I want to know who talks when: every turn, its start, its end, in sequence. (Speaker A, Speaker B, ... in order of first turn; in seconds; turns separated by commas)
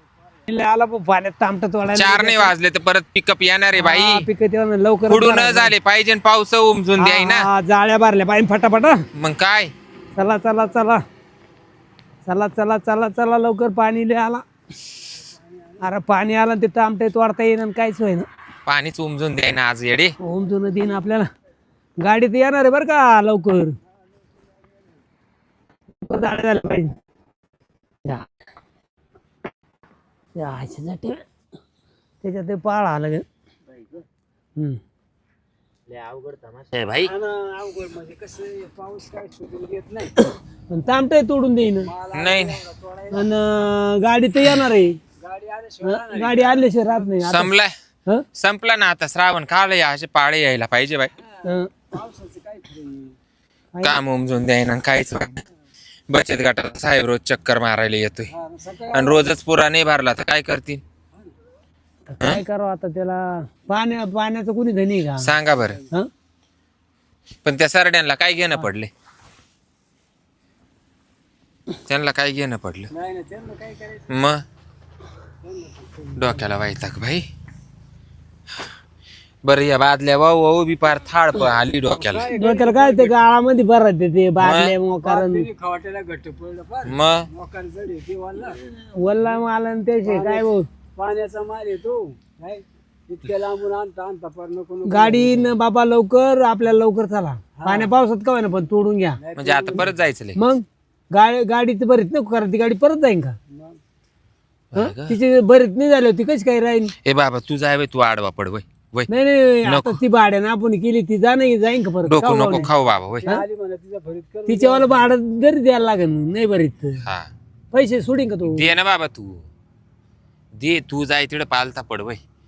Speaker A: 0.5-2.5, Speaker B: 1.9-4.2, Speaker A: 3.8-5.7, Speaker B: 5.1-7.5, Speaker A: 7.0-9.0, Speaker B: 9.1-9.7, Speaker A: 10.2-11.0, Speaker A: 12.2-14.4, Speaker C: 15.3-15.8, Speaker A: 15.8-18.3, Speaker B: 18.7-20.1, Speaker A: 20.2-21.2, Speaker A: 22.0-23.8, Speaker A: 26.0-26.9, Speaker A: 30.4-31.2, Speaker A: 32.2-33.2, Speaker B: 36.6-37.1, Speaker C: 37.0-40.1, Speaker A: 40.7-41.9, Speaker C: 41.8-43.3, Speaker B: 42.1-42.6, Speaker A: 43.1-44.9, Speaker C: 45.2-46.8, Speaker A: 45.8-47.5, Speaker B: 47.2-47.7, Speaker B: 48.4-51.1, Speaker C: 51.1-53.2, Speaker A: 51.4-51.9, Speaker B: 53.8-55.4, Speaker B: 56.1-58.3, Speaker C: 58.3-59.3, Speaker B: 58.9-60.8, Speaker A: 62.1-65.3, Speaker B: 65.2-65.8, Speaker B: 67.4-68.9, Speaker B: 71.9-72.9, Speaker C: 72.9-74.1, Speaker B: 74.1-74.4, Speaker C: 75.4-76.5, Speaker B: 76.2-77.2, Speaker B: 79.4-82.3, Speaker C: 81.9-83.2, Speaker A: 82.3-85.5, Speaker B: 84.4-84.7, Speaker C: 85.0-88.6, Speaker B: 86.8-87.3, Speaker A: 88.6-90.7, Speaker C: 90.0-95.6, Speaker A: 94.8-99.2, Speaker C: 97.5-97.9, Speaker C: 99.2-99.9, Speaker B: 99.3-100.4, Speaker A: 100.3-103.3, Speaker C: 103.5-103.8, Speaker B: 104.7-105.2, Speaker A: 104.7-106.9, Speaker B: 107.0-109.1, Speaker A: 109.1-112.7, Speaker B: 109.7-110.0, Speaker B: 112.0-113.3, Speaker C: 113.2-115.1, Speaker A: 114.5-117.0, Speaker B: 117.0-117.3, Speaker A: 117.7-118.7, Speaker B: 118.4-119.5, Speaker B: 120.6-122.2